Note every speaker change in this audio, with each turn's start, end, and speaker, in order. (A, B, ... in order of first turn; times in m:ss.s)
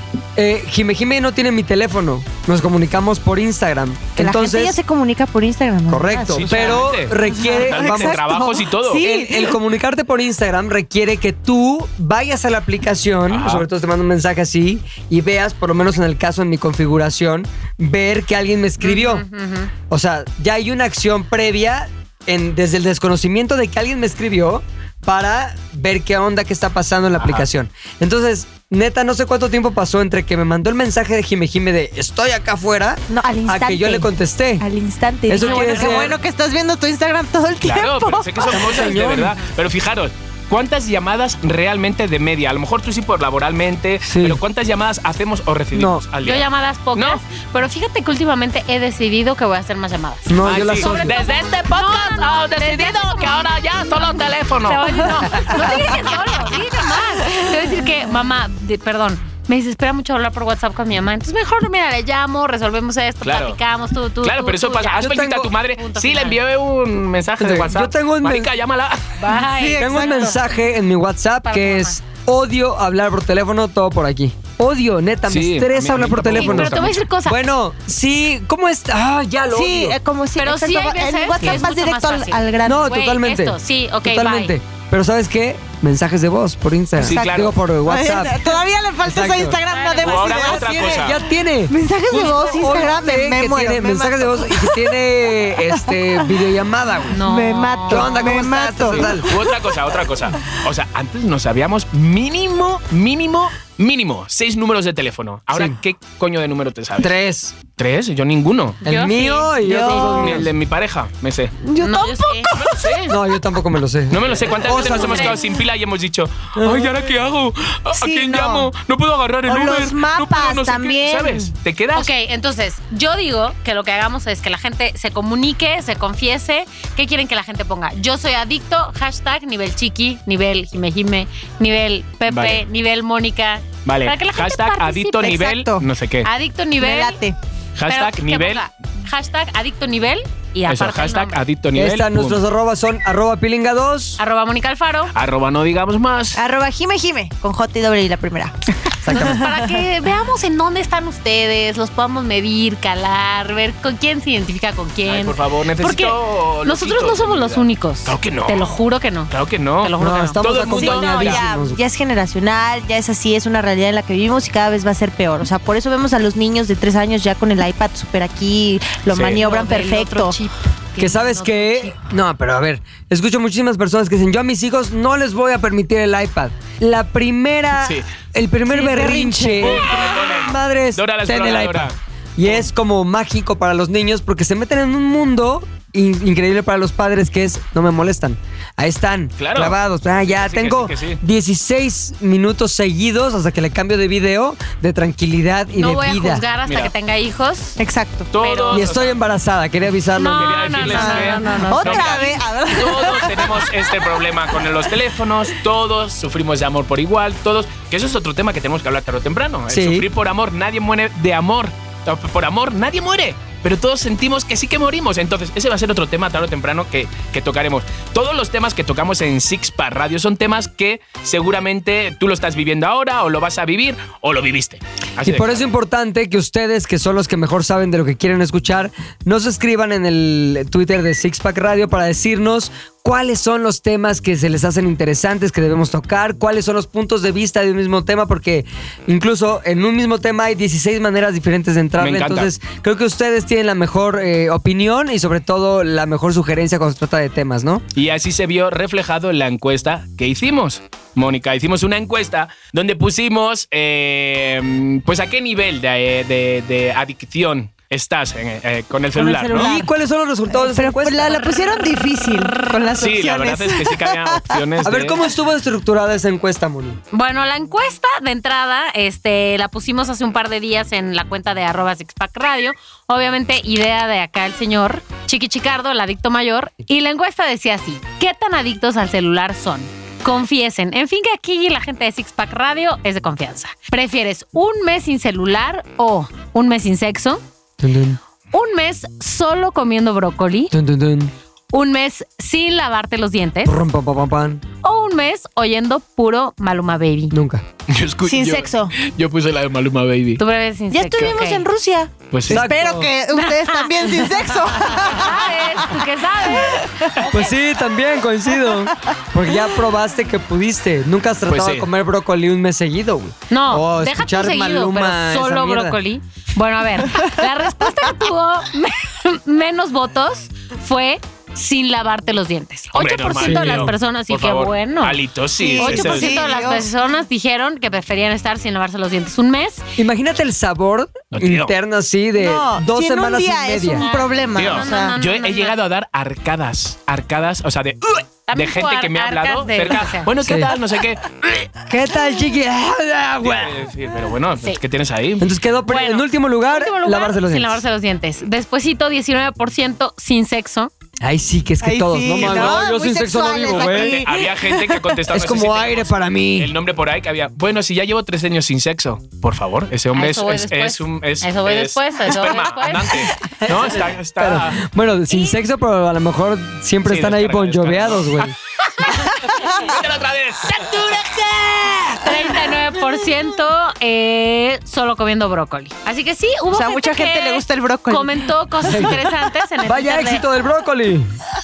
0:00.4-0:04.8 A
0:04.2-0:09.6 B
0:05.9-0:08.4 A
0:06.3-0:09.1 C
0:08.9-0:19.2 A
0:13.3-0:13.7 C
0:18.8-0:19.7 D
0:19.9-0:34.6 A
0:27.2-0:27.4 C
0:33.1-0:34.1 B
0:34.6-0:38.6 B
0:35.3-0:36.2 A
0:35.4-0:36.0 D
0:37.6-0:47.2 C
0:38.5-0:39.4 A
0:44.0-0:44.4 A
0:45.7-0:46.0 A
0:46.2-1:05.2 D
0:50.3-0:51.1 A
0:50.4-0:55.1 C
1:03.2-1:03.6 C
1:04.2-1:09.2 C
1:05.0-1:05.5 A
1:05.8-1:06.4 D
1:07.4-1:08.5 A
1:09.2-1:10.4 D
1:09.3-1:10.4 B
1:09.8-1:20.0 A
1:11.4-1:12.0 D
1:15.3-1:17.0 C
1:16.4-1:17.4 D
1:19.5-1:22.8 B
1:20.4-1:24.5 D
1:22.7-1:29.6 A
1:27.0-1:31.2 B
1:27.0-1:27.6 C
1:29.7-1:30.6 D
1:30.0-1:31.2 C
1:30.5-1:37.2 A
1:31.7-1:34.9 B
1:35.5-1:36.3 B
1:37.1-1:38.2 D
1:37.1-1:39.6 B
1:37.9-1:39.3 A
1:38.9-1:47.1 C
1:47.0-1:47.6 A
1:47.8-1:48.8 C
1:48.8-1:50.2 D
1:48.8-1:50.5 A
1:49.6-1:50.4 B
1:49.9-1:51.6 C
1:51.6-1:53.1 B
1:51.8-1:52.5 D
1:52.5-1:53.2 C
1:53.1-1:55.4 A
1:54.1-2:02.1 C
1:54.7-1:55.4 D
1:56.6-1:56.9 A
1:57.9-1:58.7 B
1:59.5-2:01.5 B
2:01.9-2:15.4 D
2:12.3-2:12.6 C
2:13.8-2:16.3 C
2:15.2-2:15.8 B
2:16.2-2:17.2 D
2:16.8-2:17.4 B
2:17.8-2:18.6 C
2:17.9-2:21.4 D
2:20.7-2:22.4 C
2:21.8-2:24.2 A
2:24.2-2:25.1 D
2:25.1-2:26.4 C
2:26.4-2:29.6 B
2:29.0-2:29.5 A
2:29.1-2:40.4 D
2:35.1-2:38.8 C
2:39.3-2:41.5 C
2:40.0-2:41.8 A
2:40.7-2:50.4 B
2:49.1-2:49.4 C
2:49.3-2:52.0 D
2:51.0-3:16.4 A
2:57.8-2:58.1 C
2:58.7-3:00.2 B
2:59.6-3:02.7 C
3:09.4-3:11.2 C
3:15.8-3:17.8 D
3:16.7-3:16.9 C
3:17.8-3:18.3 B
3:18.3-3:19.2 C
3:18.4-3:18.9 D
3:18.7-3:21.0 A
3:20.2-3:22.4 D
3:20.4-3:45.6 C
3:20.9-3:23.7 B
3:29.7-3:30.1 A
3:45.2-4:07.8 A
4:02.0-4:02.5 C
4:08.0-4:19.7 C
4:19.1-4:19.9 B
4:19.5-4:21.5 A
4:20.5-4:24.6 B
4:23.0-4:25.3 C
4:24.8-4:27.0 A
4:27.1-4:47.4 D
4:47.8-4:48.2 A
4:48.5-4:50.7 D
4:50.7-4:51.3 A
4:51.7-4:53.8 D
4:53.6-4:54.6 A
4:54.8-4:57.4 D
4:57.3-4:57.6 A
4:57.9-5:00.4 C
4:58.2-4:58.9 B
5:00.4-5:01.7 D
5:00.9-5:07.1 B
5:02.3-5:02.6 C
5:02.5-5:03.1 A
5:03.3-5:07.6 D
5:07.3-5:16.0 A
5:08.6-5:08.9 B
5:11.5-5:11.9 C
5:13.5-5:25.2 D
5:23.0-5:26.5 C
5:23.4-5:23.9 A
5:25.6-5:26.9 B
5:25.8-5:29.8 D
5:30.0-5:34.1 A
5:31.3-5:31.7 C
5:32.4-5:35.2 B
5:33.9-5:35.8 D
5:34.6-5:41.7 C
5:38.5-5:40.3 D
5:40.4-5:40.7 A
5:41.9-5:43.8 A
5:43.4-5:45.5 C
5:45.4-5:47.8 A
5:45.9-5:50.9 D
5:51.2-5:54.3 A
5:51.8-5:55.2 B
5:52.4-5:52.8 C
5:53.7-6:04.8 C
5:55.3-5:56.7 A
6:00.1-6:03.3 D
6:03.6-6:08.5 A
6:07.1-6:12.6 C
6:09.5-6:09.9 B
6:12.2-6:20.4 D
6:16.7-6:19.2 B
6:18.9-6:19.3 A
6:19.8-6:21.3 A